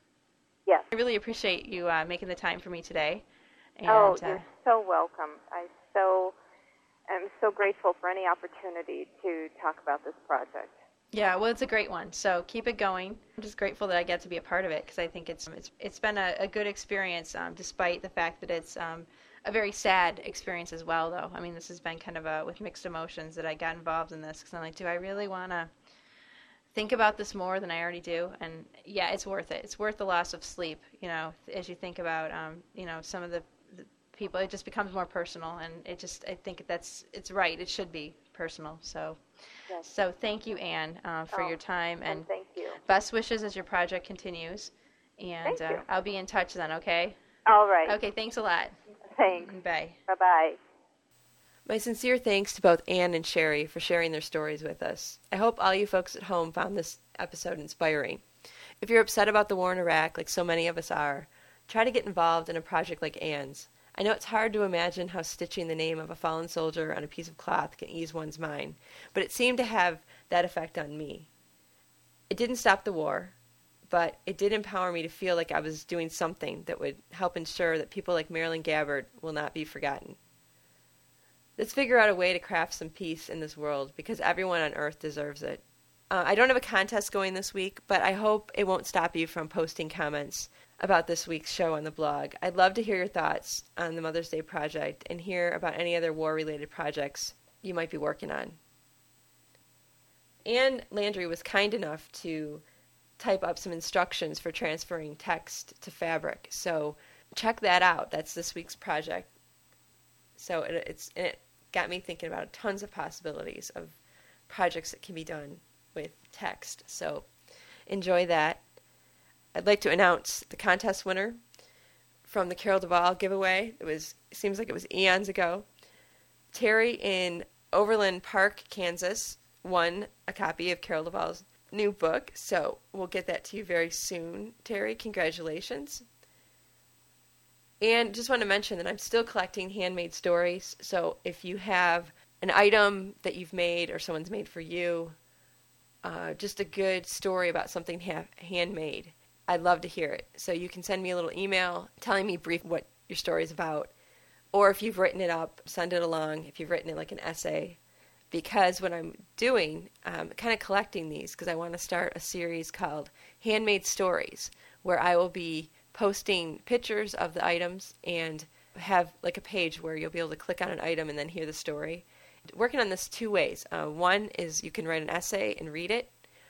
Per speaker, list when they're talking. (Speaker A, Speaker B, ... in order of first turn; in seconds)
Speaker A: 0.9-3.2, 3.8-4.4, 11.1-25.7, 26.7-39.2, 39.8-42.3, 42.8-47.2, 47.9-48.8, 49.3-50.0
Speaker B: 3.9-6.3, 7.1-10.8, 42.1-42.8, 45.4-45.8, 47.5-48.0, 49.0-49.5, 50.1-50.6
Speaker C: 51.6-58.2, 58.8-71.3, 72.3-73.3, 73.9-80.2, 81.6-98.6, 100.4-102.6, 103.2-109.3, 110.4-114.0, 114.5-117.3, 117.9-118.6, 119.5-121.4, 122.2-125.7, 126.5-136.0, 137.8-145.2, 146.0-153.9, 154.5-157.8, 158.3-176.1